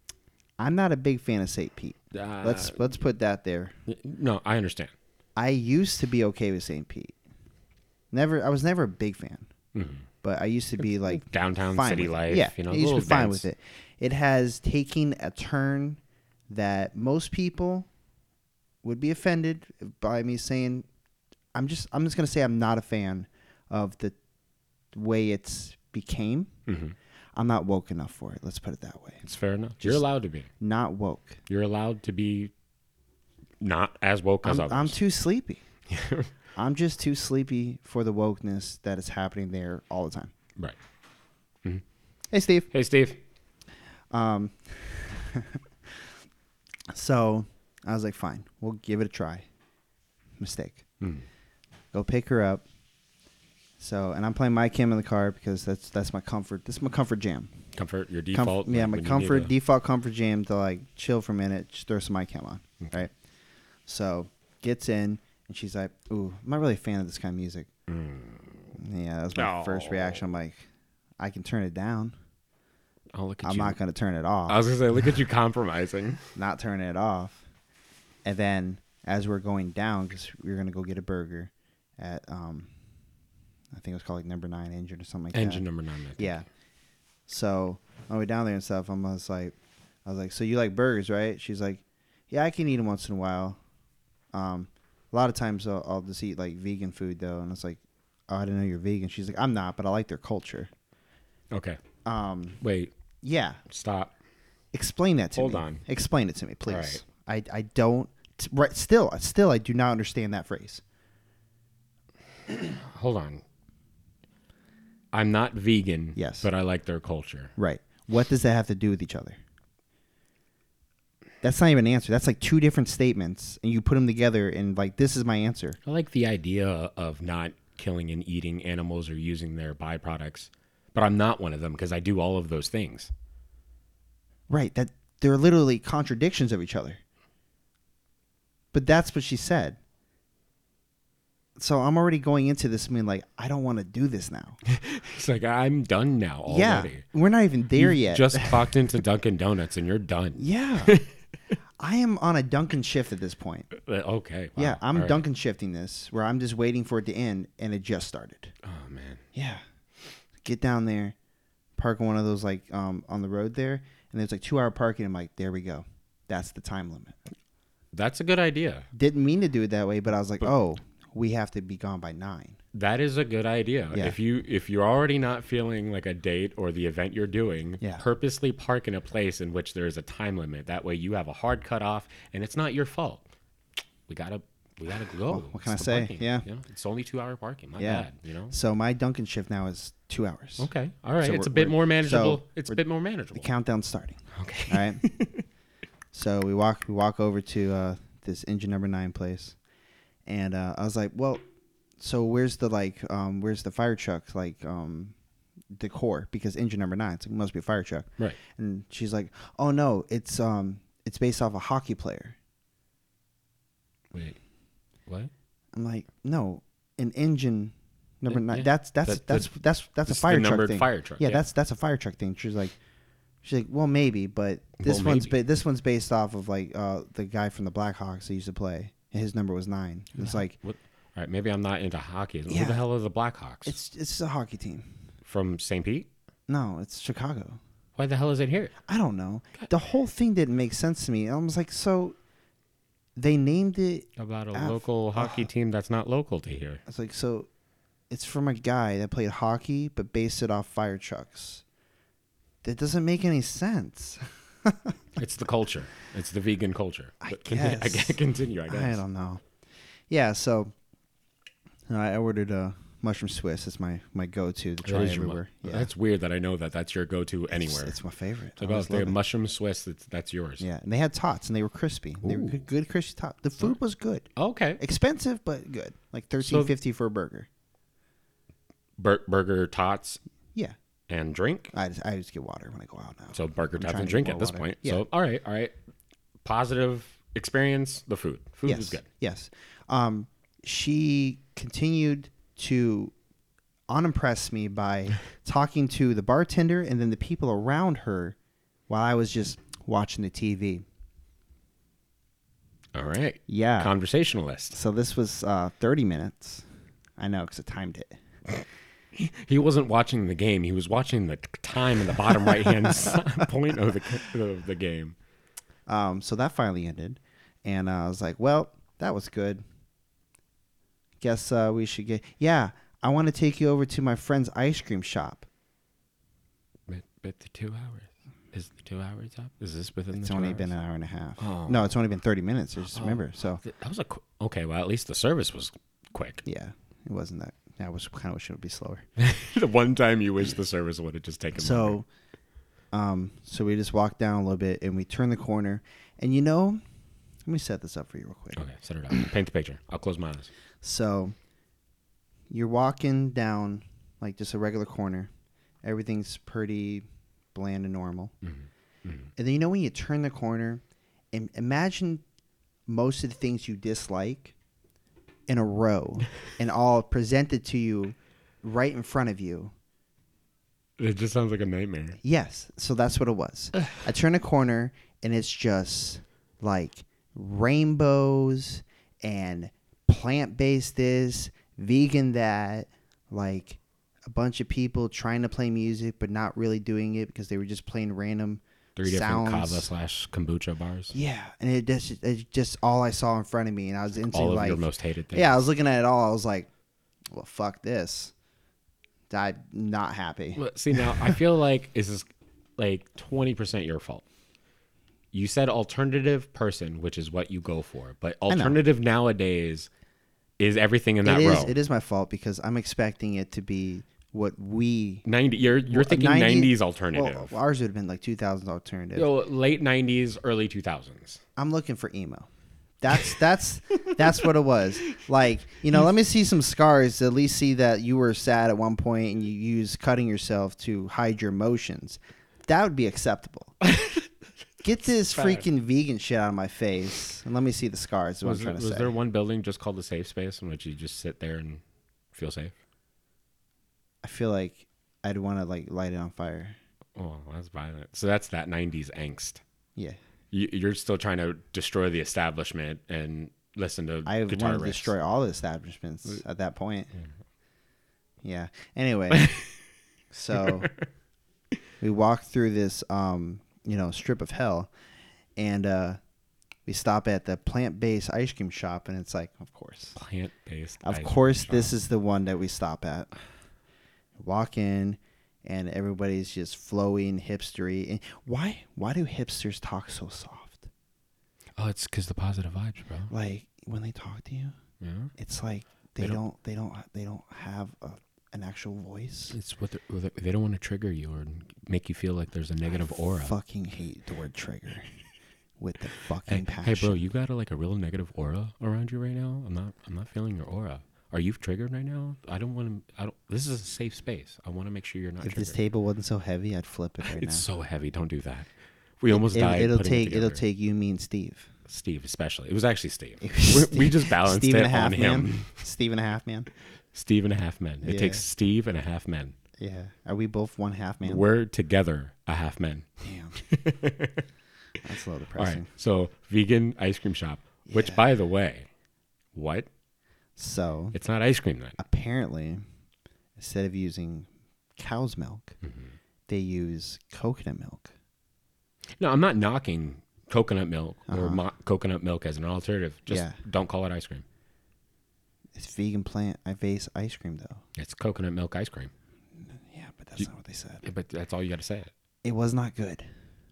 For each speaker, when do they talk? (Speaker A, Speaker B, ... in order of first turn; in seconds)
Speaker A: 0.6-3.7, 5.4-7.2, 8.1-9.5, 10.2-17.9, 18.8-20.9, 21.6-24.2, 24.9-26.5, 27.4-29.2, 30.6-31.4, 34.4-35.6, 36.6-40.3, 42.3-42.7, 44.1-46.1, 46.9-49.5, 50.4-50.8, 51.9-52.6, 53.8-57.5, 58.3-63.1, 63.9-67.7, 68.8-70.6, 71.2-72.2, 73.4-74.6, 76.4-77.4, 78.2-82.7, 83.7-85.6, 86.2-86.5, 87.3-93.6, 94.3-100.7, 102.0-102.6, 103.2-103.6, 104.7-110.8, 116.2-116.5, 117.6-119.4, 121.4-125.8, 134.5-137.0, 138.7-139.8, 141.6-144.6, 146.5-148.7, 150.4-150.9, 151.8-153.7, 154.6-158.5, 159.3-159.6, 160.4-161.2, 161.8-167.2, 168.9-172.6, 185.3-186.5, 187.8-190.7, 191.2-192.8, 193.3-195.0, 196.1-199.6, 200.3-201.4, 202.0-205.2, 205.7-212.4, 215.7-222.8, 223.4-230.6, 232.5-232.8, 233.7-234.9, 236.5-237.6, 238.9-242.2, 243.2-245.5, 246.9-247.5, 248.1-251.6, 252.6-255.0, 257.2-259.4, 260.1-260.7, 261.9-265.9, 267.5-269.1, 270.6-274.3, 274.8-277.5, 281.7-285.1, 288.7-293.1, 293.9-298.4, 298.9-300.9, 303.5-303.9, 304.7-306.6, 307.2-308.2, 312.3-313.4, 315.9-319.6, 321.2-325.5, 330.1-333.6, 336.4-339.0, 341.6-342.1, 342.9-346.8, 347.5-348.6, 350.8-351.4, 352.5-355.3, 355.8-358.3, 359.4-362.2, 362.9-364.5, 365.5-369.7, 372.2-389.9, 391.1-396.7, 397.3-398.3, 399.3-401.4, 408.5-408.8, 411.2-415.2, 415.9-419.3, 421.6-422.5, 423.0-433.8, 434.8-439.1, 444.2-446.8, 454.3-457.1, 458.4-459.5, 460.3-460.9, 462.0-464.9, 465.6-466.2, 466.9-470.2, 471.0-473.3, 474.4-480.9, 483.3-484.8, 485.4-489.6, 493.0-495.1, 495.8-497.2, 505.4-507.6, 509.3-511.7, 513.4-516.7, 518.0-518.4, 519.8-521.4, 523.2-523.6, 525.0-525.9, 527.9-528.2, 530.6-531.1, 532.0-532.8, 533.6-535.7, 536.5-538.1, 541.3-541.6, 543.3-543.6, 545.8-547.8, 549.7-551.0, 552.4-553.3
Speaker B: 2.1-2.8, 3.9-4.9, 9.7-10.1, 11.1-13.5, 26.7-26.9, 29.2-30.5, 31.5-32.5, 33.6-35.0, 35.9-36.3, 42.7-43.2, 57.8-59.5, 62.8-63.1, 67.9-68.6, 69.3-70.3, 73.1-73.8, 74.5-76.2, 85.3-86.5, 101.5-101.8, 102.6-102.9, 103.7-104.1, 105.3-105.8, 106.7-107.0, 112.6-113.4, 115.1-117.5, 125.9-133.1, 144.7-147.0, 147.8-151.1, 153.7-155.2, 158.6-159.2, 167.9-168.9, 172.7-183.2, 184.1-188.6, 190.6-193.5, 194.3-195.4, 214.1-214.4, 218.3-219.5, 220.1-221.4, 224.8-225.4, 230.2-233.8, 235.2-236.1, 238.0-238.7, 244.2-246.8, 255.2-259.0, 264.8-268.0, 268.6-270.7, 272.2-272.6, 274.4-274.8, 276.4-276.7, 279.0-280.2, 281.1-281.7, 283.3-285.8, 286.4-289.1, 302.9-304.8, 309.1-315.1, 326.9-330.7, 331.4-331.9, 332.9-336.4, 339.2-342.0, 348.6-350.5, 358.4-359.3, 371.0-372.2, 389.0-391.1, 394.3-395.7, 400.6-402.3, 402.8-404.2, 405.3-409.9, 410.6-411.7, 415.3-417.6, 419.1-421.4, 433.8-434.3, 435.3-435.7, 438.4-441.8, 442.3-442.7, 447.2-449.6, 450.5-455.1, 459.3-459.8, 460.5-461.1, 470.1-471.9, 481.8-483.3, 485.0-485.3, 489.5-493.5, 496.5-505.8, 507.2-510.6, 511.9-515.8, 517.1-519.6, 521.2-524.4, 525.6-528.9, 529.5-529.9, 531.1-532.0, 535.8-536.1, 539.2-544.4, 548.0-549.1, 551.0-552.1